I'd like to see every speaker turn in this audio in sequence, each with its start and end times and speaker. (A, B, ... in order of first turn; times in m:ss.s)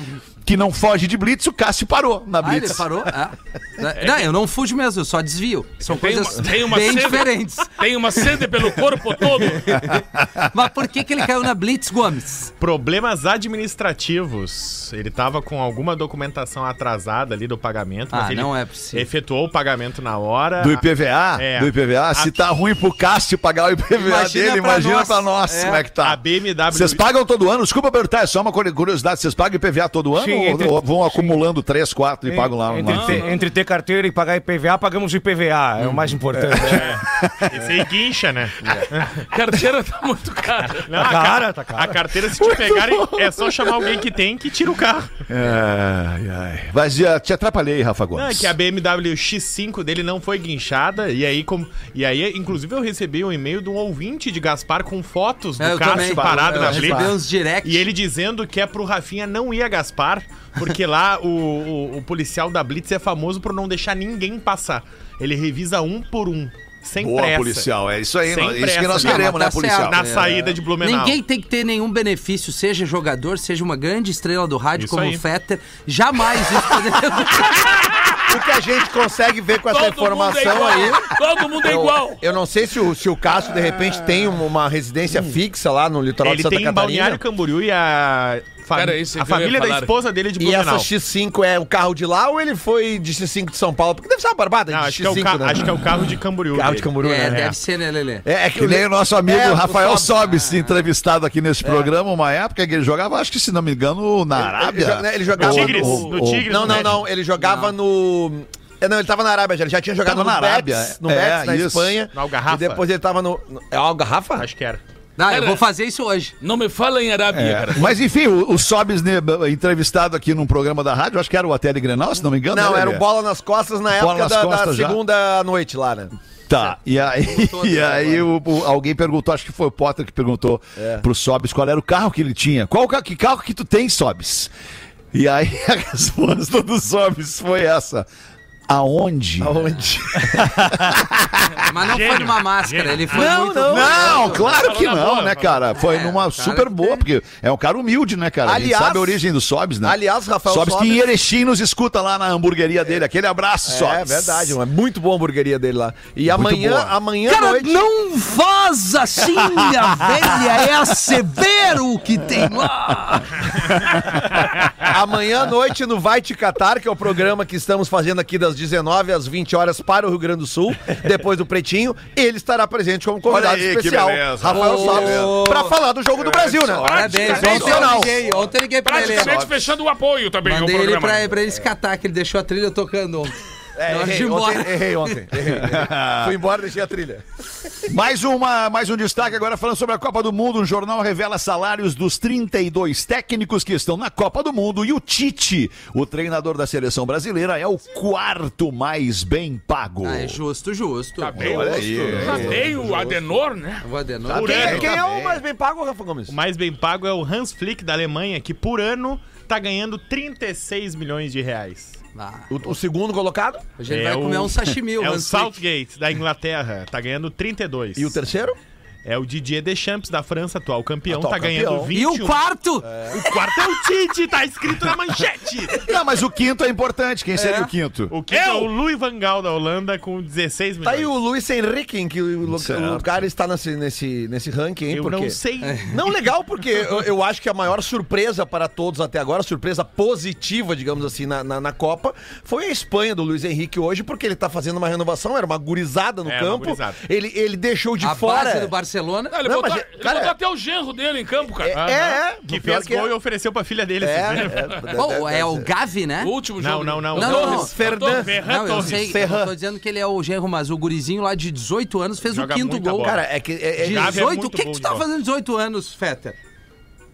0:00.4-0:03.1 A
0:02.4-0:08.2 B
0:04.0-0:04.3 C
0:05.9-0:09.8 C
0:09.7-0:12.5 B
0:12.6-0:20.8 D
0:18.1-0:19.1 B
0:20.6-0:33.3 A
0:21.4-0:22.3 D
0:23.9-0:25.8 B
0:26.0-0:27.0 D
0:30.1-0:31.4 E
0:32.2-0:37.0 E
0:32.8-0:33.3 C
0:35.8-0:39.2 D
0:36.3-0:37.7 A
0:39.2-0:41.1 C
0:40.7-0:45.1 D
0:41.0-0:42.0 E
0:42.4-0:43.9 A
0:45.3-0:48.5 A
0:48.1-1:07.7 D
0:55.6-0:57.9 B
0:56.1-0:57.1 F
1:07.0-1:10.0 A
1:08.3-1:11.2 D
1:08.4-1:17.8 B
1:14.8-1:15.2 D
1:18.3-1:27.2 F
1:19.6-1:22.2 C
1:26.2-1:30.9 D
1:28.7-1:29.9 C
1:30.4-1:35.8 F
1:34.7-1:37.6 D
1:36.5-1:37.5 F
1:37.0-1:38.2 B
1:38.2-1:40.2 F
1:38.5-1:46.9 A
1:40.0-1:40.8 B
1:41.6-1:41.9 F
1:44.4-1:54.5 F
1:45.4-1:47.0 D
1:47.4-1:47.7 B
1:50.0-1:52.0 A
1:52.1-1:52.8 D
1:54.4-1:54.8 D
1:55.2-1:56.3 B
1:55.3-1:55.6 C
1:56.4-1:57.9 C
1:57.3-2:03.0 A
2:02.5-2:06.1 F
2:03.9-2:05.0 A
2:06.5-2:14.5 A
2:07.2-2:08.3 B
2:10.8-2:11.0 F
2:15.1-2:18.1 A
2:18.7-2:21.6 A
2:19.4-2:20.6 F
2:21.7-2:24.5 B
2:21.8-2:23.5 D
2:23.1-2:24.4 F
2:23.7-2:34.6 A
2:24.6-2:25.3 C
2:25.0-2:25.4 D
2:25.7-2:27.0 B
2:28.4-2:29.2 F
2:29.8-2:31.1 F
2:33.6-2:37.8 F
2:36.3-2:36.9 A
2:37.2-2:43.4 B
2:43.8-2:44.2 A
2:44.8-2:58.3 F
2:53.2-2:55.4 A
2:54.5-2:55.8 B
2:56.7-2:58.1 C
2:56.8-2:59.4 B
2:57.2-2:58.2 A
2:58.8-3:01.3 C
2:59.1-2:59.5 A
3:00.4-3:03.4 B
3:03.8-3:07.2 F
3:03.9-3:05.1 B
3:05.4-3:06.4 A
3:07.9-3:20.4 A
3:20.0-3:21.6 B
3:21.2-3:23.8 C
3:21.3-3:22.7 A
3:21.4-3:23.4 F
3:23.8-3:24.9 B
3:24.3-3:25.4 A
3:24.3-3:25.0 D
3:24.3-3:26.4 F
3:26.3-3:32.0 D
3:32.1-3:32.5 B
3:32.5-3:33.7 F
3:33.8-3:35.6 B
3:33.9-3:38.2 D
3:37.9-3:38.6 F
3:39.0-3:42.4 D
3:41.1-3:41.9 F
3:41.9-3:43.4 B
3:42.8-3:43.2 F
3:43.1-3:45.8 D
3:45.8-3:48.1 A
3:47.3-3:47.7 B
3:48.1-3:51.1 D
3:48.3-3:48.7 C
3:50.8-4:08.7 F
3:52.4-3:53.2 A
3:54.9-3:55.9 D
3:55.6-3:55.9 B
4:06.2-4:07.0 D
4:08.0-4:09.4 B
4:09.3-4:11.7 C
4:09.4-4:10.3 F
4:11.6-4:13.1 F
4:11.7-4:14.7 D
4:14.0-4:15.7 F
4:14.9-4:16.3 B
4:16.2-4:18.3 C
4:16.6-4:19.4 D
4:17.1-4:17.7 B
4:17.2-4:19.5 F
4:18.4-4:23.2 B
4:22.2-4:23.2 D
4:23.0-4:24.3 F
4:23.8-4:26.4 B
4:23.8-4:25.0 D